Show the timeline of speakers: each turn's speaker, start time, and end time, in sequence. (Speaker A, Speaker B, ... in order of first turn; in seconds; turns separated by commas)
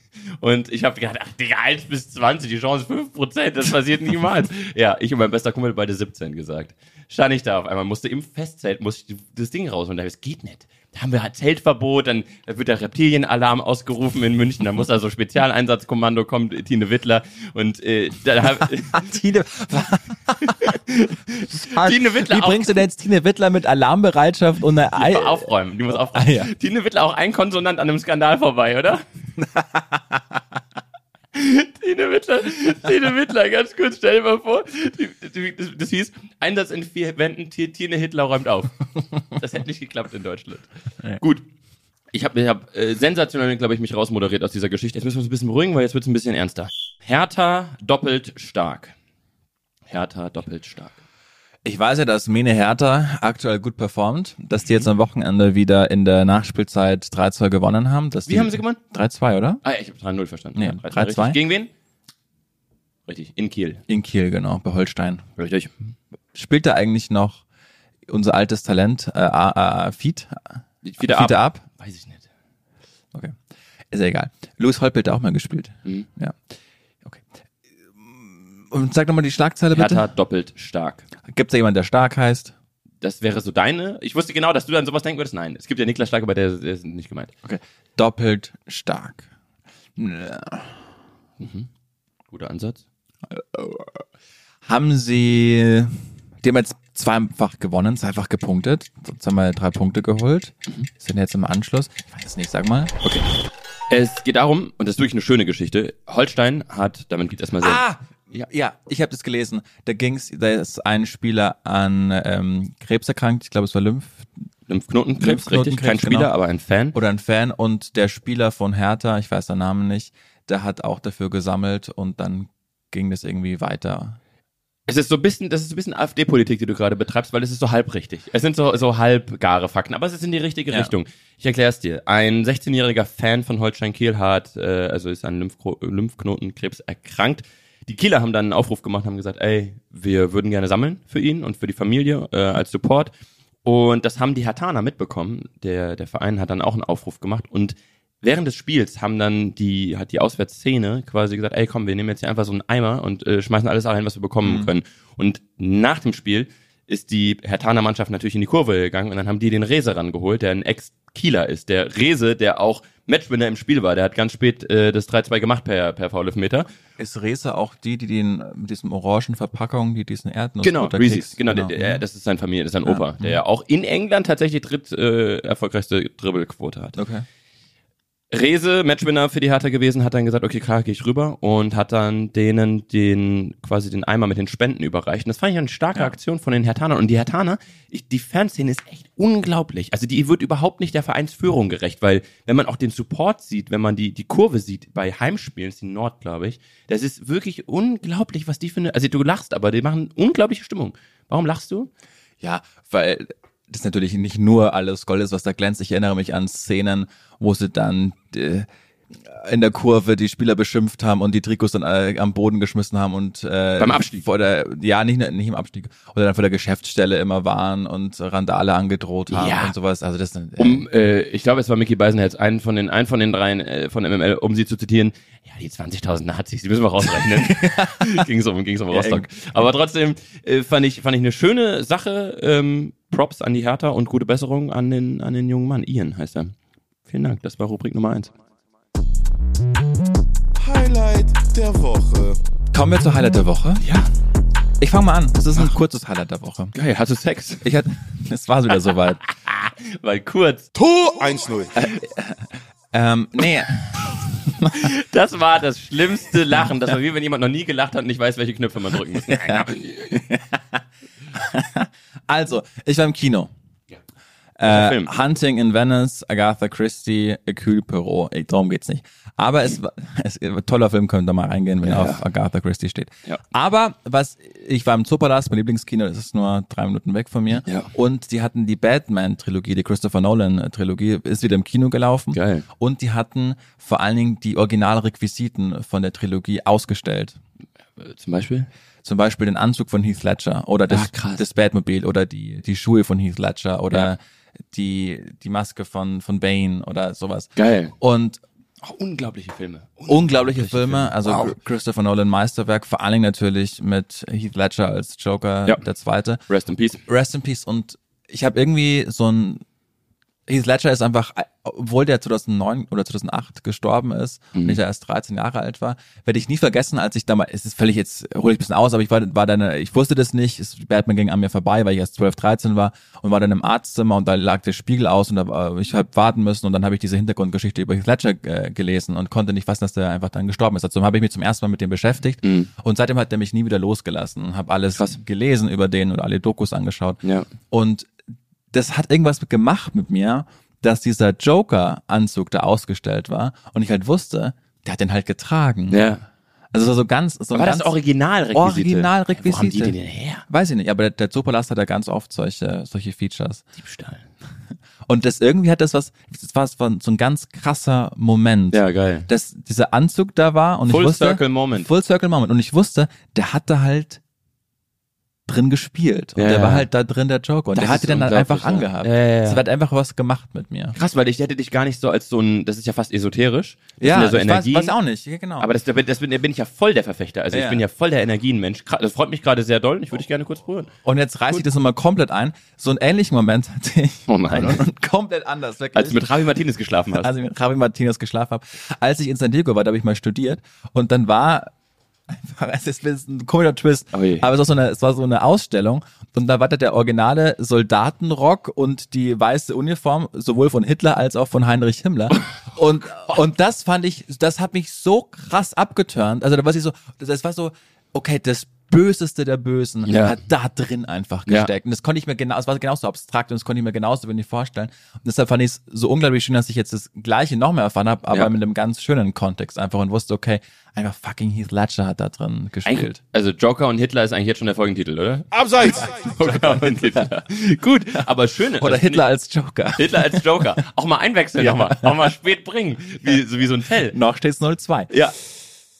Speaker A: 0.4-19.1, Speaker B: 18.9-20.8, Speaker A: 20.4-22.8, Speaker B: 21.5-25.5, Speaker A: 24.9-29.0, Speaker B: 26.1-26.5, Speaker B: 29.4-30.4, Speaker A: 31.3-38.8, Speaker A: 39.3-41.5, Speaker A: 42.1-48.9, Speaker A: 49.9-51.0, Speaker B: 51.6-59.6, Speaker A: 58.3-58.8, Speaker A: 59.6-61.7, Speaker B: 60.5-61.4, Speaker A: 63.1-63.8, Speaker B: 63.9-65.2, Speaker A: 65.4-65.7, Speaker B: 66.3-67.4, Speaker B: 68.1-71.6, Speaker A: 70.8-72.2, Speaker B: 73.9-76.4, Speaker B: 78.0-80.0, Speaker A: 79.7-81.0, Speaker B: 81.3-82.5, Speaker A: 83.0-87.3, Speaker B: 87.4-89.2, Speaker B: 90.0-90.8, Speaker A: 91.4-91.7, Speaker A: 92.3-92.8, Speaker B: 93.3-94.0, Speaker B: 94.6-102.9, Speaker A: 103.9-108.5, Speaker B: 107.6-114.2, Speaker A: 114.7-116.9, Speaker B: 115.2-116.3, Speaker B: 116.9-124.2, Speaker A: 124.9-143.1, Speaker A: 143.6-166.7, Speaker B: 154.4-154.7, Speaker B: 167.0-172.0, Speaker A: 170.6-177.0, Speaker B: 172.8-173.4, Speaker B: 176.9-177.2, Speaker A: 178.3-201.9, Speaker B: 202.4-220.9, Speaker A: 213.8-214.2, Speaker A: 219.3-219.7, Speaker A: 220.6-236.5, Speaker B: 227.1-228.2, Speaker B: 228.9-229.6, Speaker A: 237.1-238.3, Speaker C: 240.6-242.4, Speaker B: 242.7-243.8, Speaker A: 243.8-244.1, Speaker B: 244.8-246.7, Speaker A: 246.7-247.7, Speaker B: 247.6-249.2, Speaker A: 249.3-250.7, Speaker C: 250.7-251.8, Speaker B: 251.8-254.9, Speaker A: 254.7-260.0, Speaker B: 259.2-260.8, Speaker B: 261.3-263.5, Speaker B: 264.6-287.4, Speaker A: 264.6-265.1, Speaker A: 271.8-272.2, Speaker A: 277.6-277.9, Speaker A: 282.3-282.6, Speaker A: 288.0-288.7, Speaker B: 289.0-294.2, Speaker A: 290.9-291.4, Speaker B: 294.7-298.4, Speaker A: 297.6-297.9, Speaker A: 298.8-301.6, Speaker B: 300.1-306.4, Speaker A: 306.5-307.0, Speaker B: 307.1-309.6, Speaker B: 310.5-338.1, Speaker A: 332.4-332.7, Speaker A: 337.2-337.5, Speaker B: 338.7-346.1, Speaker A: 345.9-346.2, Speaker B: 346.7-347.9, Speaker A: 347.5-350.4, Speaker B: 348.5-349.9, Speaker B: 350.5-353.6, Speaker A: 353.8-354.2, Speaker B: 355.1-364.2, Speaker A: 358.7-359.3, Speaker A: 360.9-361.9, Speaker B: 365.5-370.9, Speaker A: 366.4-366.9, Speaker A: 367.7-369.6, Speaker A: 370.9-374.9, Speaker B: 374.0-375.7, Speaker A: 375.6-380.9, Speaker B: 377.5-377.8, Speaker B: 381.0-386.3, Speaker A: 384.3-384.8, Speaker A: 385.9-387.3, Speaker B: 387.1-391.7, Speaker B: 392.3-423.2, Speaker A: 394.1-394.4, Speaker A: 410.0-410.4, Speaker A: 422.8-429.2, Speaker C: 425.5-426.4, Speaker B: 428.8-430.7, Speaker A: 429.9-434.1, Speaker B: 431.6-432.3, Speaker B: 434.1-435.1